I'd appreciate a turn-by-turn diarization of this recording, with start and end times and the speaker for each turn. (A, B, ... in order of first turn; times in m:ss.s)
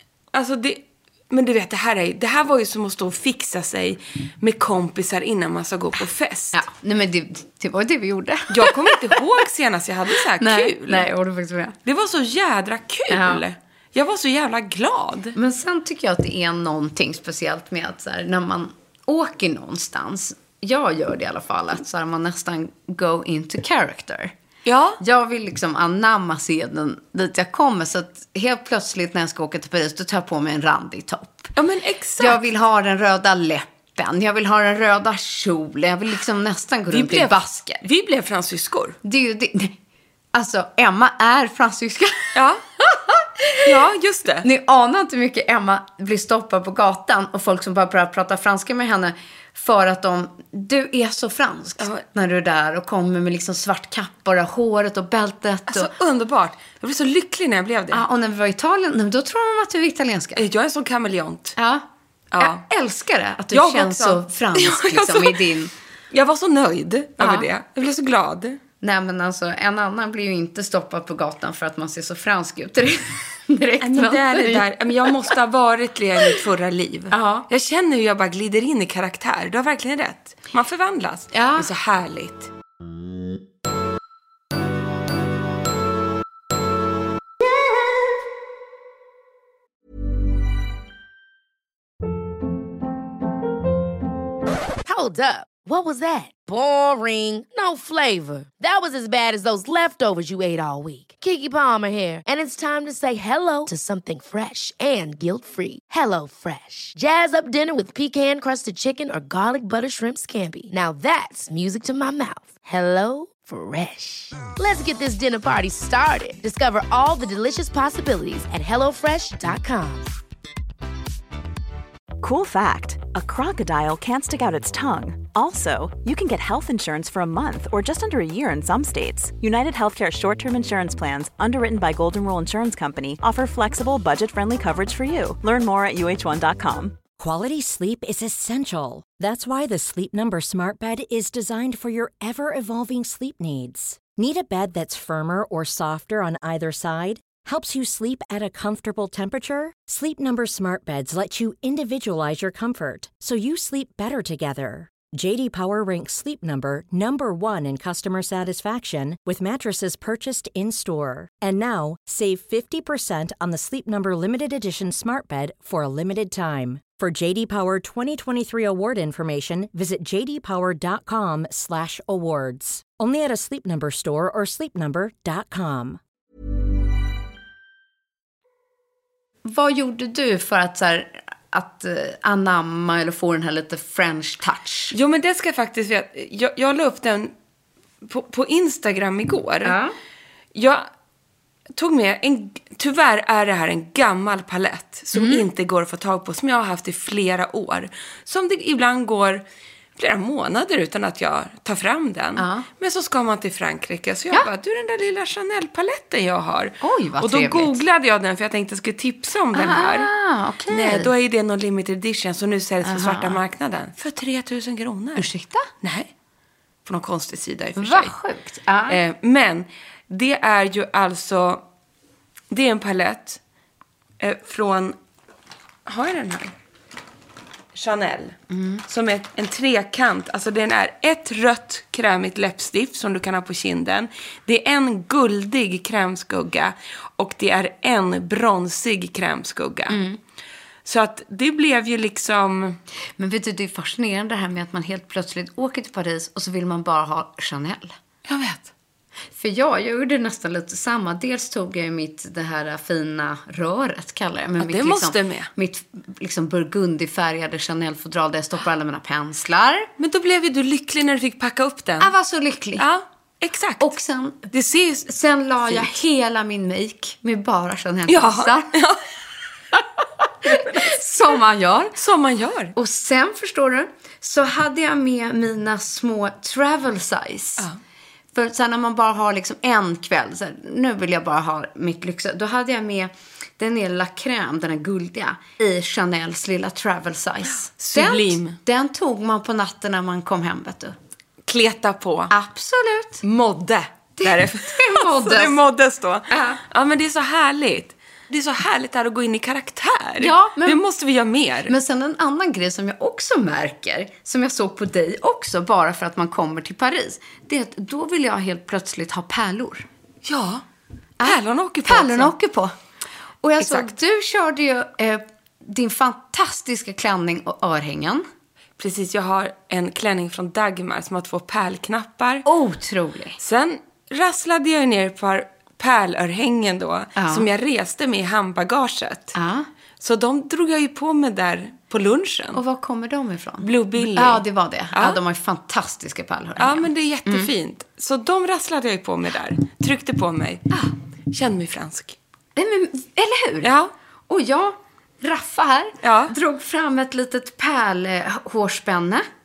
0:00.3-0:06.6 A
0:06.6-0:09.1 B
0:08.5-0:11.1 A
0:10.4-0:11.8 B
0:11.8-0:15.4 A
0:13.1-0:13.4 B
0:15.4-0:24.3 B
0:24.6-0:25.0 A
0:25.0-0:31.5 B
0:31.6-0:32.4 A
0:32.2-0:37.8 B
0:36.9-0:39.0 A
0:39.0-0:39.8 B
0:40.3-0:43.7 B
0:42.4-0:42.6 A
0:43.6-0:44.4 A
0:44.4-0:55.9 B
0:51.8-0:52.0 A
0:55.7-0:58.0 A
0:57.9-1:00.4 B
1:00.4-1:01.6 A
1:01.6-1:01.8 B
1:02.3-1:02.6 A
1:02.4-1:05.7 B
1:03.5-1:05.4 A
1:06.1-1:08.6 A
1:07.2-1:07.5 B
1:08.8-1:15.1 B
1:13.8-1:22.5 A
1:17.1-1:17.5 B
1:21.3-1:21.7 B
1:34.8-2:00.1 C
2:02.2-2:17.0 D
2:17.2-2:56.0 E
2:59.4-3:04.9 B
3:04.9-3:07.3 A
3:08.0-3:09.8 A
3:09.6-3:09.9 B
3:10.6-3:10.9 A
3:11.8-3:19.4 A
3:15.2-3:15.4 B
3:20.0-3:30.1 A
3:22.4-3:22.7 B
3:26.8-3:27.8 B
3:29.5-3:31.1 B
3:30.7-3:35.3 A
3:32.8-3:33.4 B
3:35.2-3:35.7 B
3:35.8-3:36.1 A
3:36.8-3:38.1 A
3:37.8-3:39.0 B
3:38.9-3:41.6 A
3:42.5-3:43.4 A
3:44.2-3:45.0 A
3:45.9-3:46.5 A
3:47.8-4:00.0 A
3:48.5-3:48.8 B
3:59.9-4:00.2 B
4:00.9-4:02.8 A
4:03.2-4:07.9 B
4:08.3-4:08.7 A
4:09.3-4:19.9 B
4:14.6-4:15.5 A
4:20.0-4:22.1 A
4:22.0-4:22.8 B
4:22.8-4:23.9 A
4:23.8-4:24.5 B
4:24.5-4:25.0 A
4:25.0-4:28.7 B
4:25.6-4:25.9 A
4:28.1-4:29.0 A
4:30.4-4:31.2 A
4:30.5-4:32.0 B
4:32.0-4:32.7 A
4:32.8-4:37.7 B
4:38.4-4:51.0 B
4:47.8-4:48.6 A
4:51.5-4:52.3 A
4:52.3-4:53.2 B
4:53.2-5:01.7 A
4:54.2-4:55.6 B
4:56.3-4:56.6 B
5:00.2-5:00.8 B
5:01.7-5:09.9 B
5:10.2-5:10.6 A
5:11.2-5:12.7 B
5:11.2-5:12.3 A
5:13.4-5:18.2 B
5:13.6-5:13.9 A
5:18.8-5:22.4 A
5:22.4-5:23.4 B
5:23.4-5:29.3 A
5:27.2-5:27.5 B
5:29.4-5:29.7 B
5:30.0-5:32.6 A
5:32.5-5:37.5 B
5:33.6-5:35.2 A
5:36.6-5:42.2 A
5:42.6-5:43.7 B
5:43.6-5:43.9 A
5:44.3-5:49.3 B
5:46.0-5:46.3 A